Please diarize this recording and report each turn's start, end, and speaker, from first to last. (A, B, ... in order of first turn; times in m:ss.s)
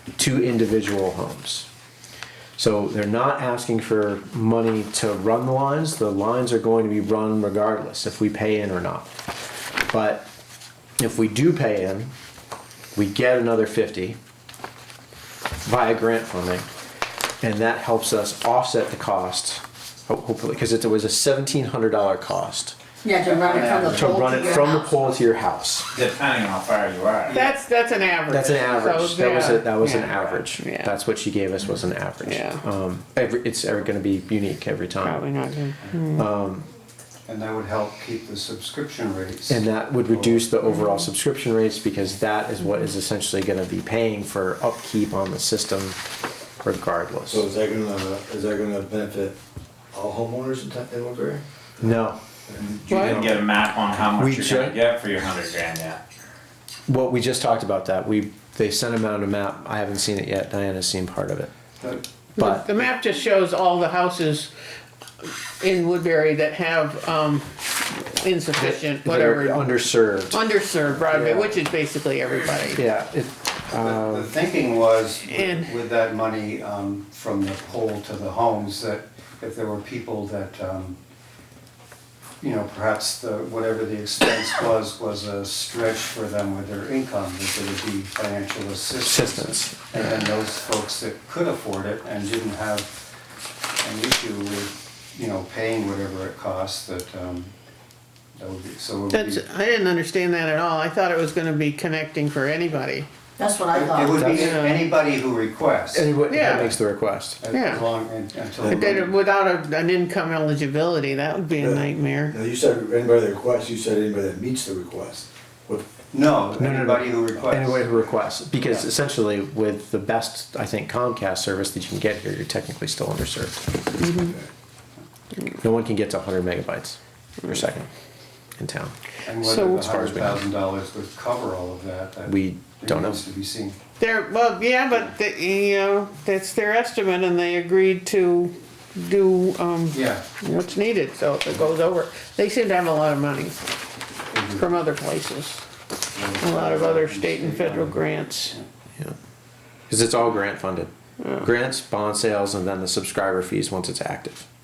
0:00.2-0:01.7 A
0:02.6-0:09.1 A
0:09.9-0:10.3 A
0:11.0-0:12.1 A
0:12.9-0:14.2 A
0:15.6-0:16.7 A
0:17.4-0:22.7 A
0:23.0-0:25.1 B
0:23.2-0:24.2 C
0:23.9-0:25.9 A
0:25.9-0:27.4 D
0:27.2-0:27.6 C
0:27.3-0:30.9 E
0:28.3-0:35.2 A
0:28.4-0:28.8 C
0:32.2-0:32.6 E
0:35.0-0:36.3 E
0:36.2-0:36.7 A
0:37.3-0:40.5 C
0:39.5-0:46.0 A
0:46.6-0:47.4 A
0:47.3-0:49.4 F
0:49.9-0:51.9 F
0:51.8-0:52.2 A
0:52.5-0:53.4 F
0:52.8-0:56.0 D
0:52.9-0:53.2 E
0:54.2-0:54.8 A
0:56.9-1:01.5 A
1:02.4-1:04.5 E
1:02.4-1:02.6 A
1:05.6-1:09.7 E
1:08.6-1:10.4 A
1:10.3-1:12.8 E
1:10.9-1:11.6 C
1:12.7-1:14.3 A
1:13.7-1:21.0 C
1:15.3-1:15.7 E
1:22.4-1:32.9 C
1:29.0-1:30.1 A
1:33.8-1:37.5 C
1:38.3-1:39.4 C
1:39.1-1:43.1 E
1:43.4-1:44.4 B
1:43.7-1:46.1 C
1:44.2-1:44.5 A
1:44.3-1:44.9 E
1:45.9-1:47.4 A
1:46.3-1:46.7 E
1:47.4-1:49.1 C
1:47.5-1:47.9 E
1:48.6-1:52.3 E
1:51.6-1:55.9 F
1:56.1-1:58.1 C
1:56.6-2:03.6 A
2:04.0-2:04.4 E
2:05.6-2:07.9 A
2:08.6-2:08.9 A
2:09.2-2:13.8 C
2:09.4-2:10.3 E
2:09.9-2:10.2 A
2:12.3-2:13.2 A
2:14.0-2:23.6 E
2:19.9-2:20.2 C
2:24.3-2:24.7 C
2:24.6-2:25.6 E
2:26.1-2:28.6 C
2:26.4-2:28.5 E
2:29.9-2:34.4 A
2:31.2-2:31.5 E